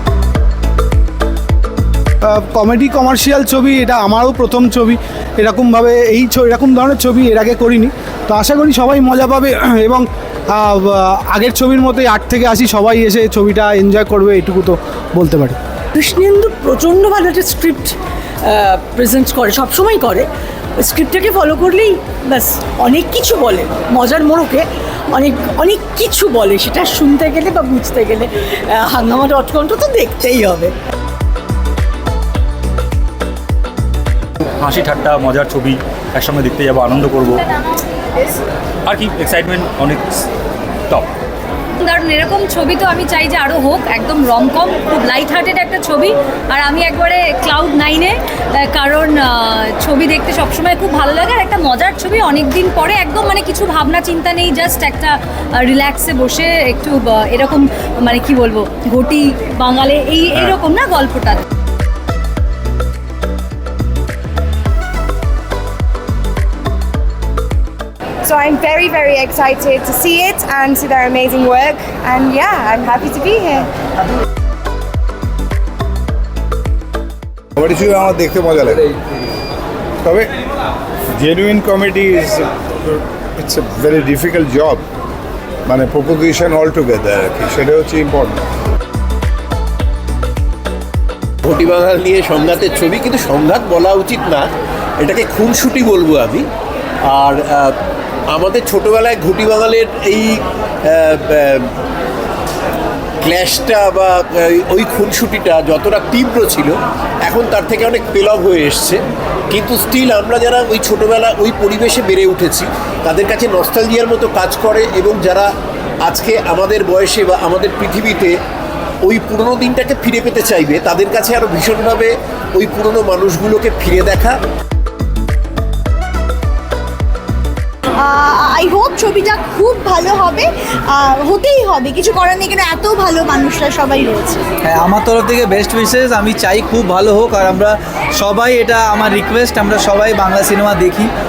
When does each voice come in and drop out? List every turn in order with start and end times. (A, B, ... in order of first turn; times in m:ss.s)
0:02.3-0:15.6 A
0:15.9-0:30.7 B
0:34.6-0:37.4 C
0:38.9-0:40.2 C
0:41.8-1:01.4 D
1:08.3-1:13.6 E
1:17.6-1:18.9 F
1:20.0-1:20.3 F
1:21.2-1:22.5 F
1:23.4-1:24.8 F
1:25.7-1:28.4 F
1:31.4-1:34.5 G
1:35.0-1:36.4 G
1:37.1-1:37.7 G
1:38.3-1:41.7 G
1:43.2-1:49.0 G
1:49.5-1:55.5 G
1:56.0-1:58.3 G
1:59.0-2:04.4 G
2:08.0-2:14.4 H
2:14.6-2:21.1 I